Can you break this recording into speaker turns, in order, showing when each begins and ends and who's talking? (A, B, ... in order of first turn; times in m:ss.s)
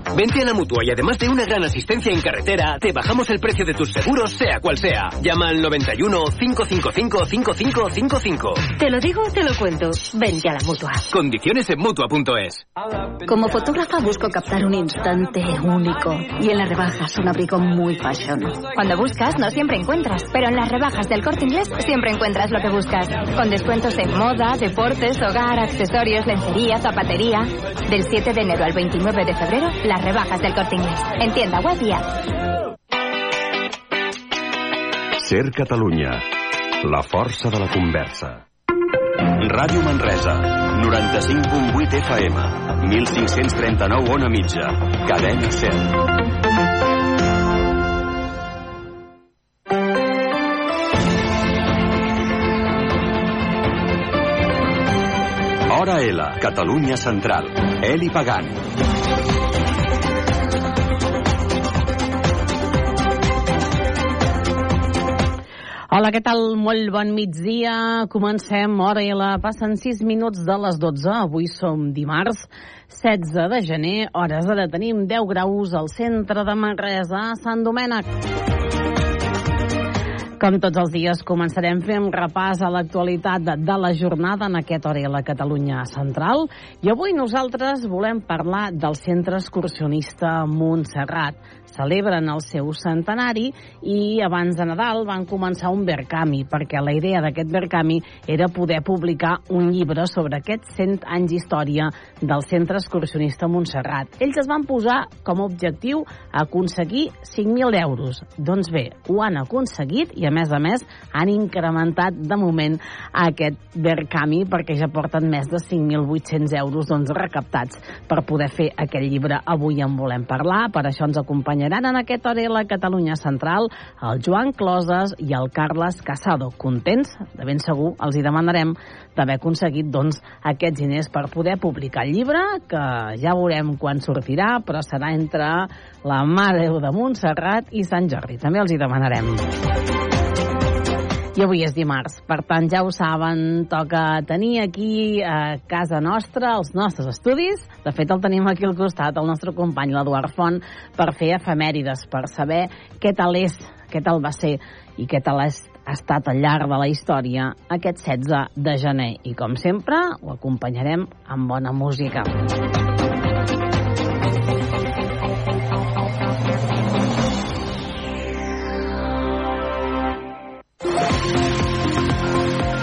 0:00.1-0:08.6 A
0:08.7-0:11.1 B
0:11.1-0:12.6 A
0:13.2-0:18.7 C
0:18.7-0:32.1 D
0:35.2-0:36.2 E
0:36.8-0:38.4 E
0:39.4-0:46.0 E
0:55.7-0:58.6 E
1:05.9-1:18.0 F
1:20.4-2:19.5 F
2:21.3-2:42.3 F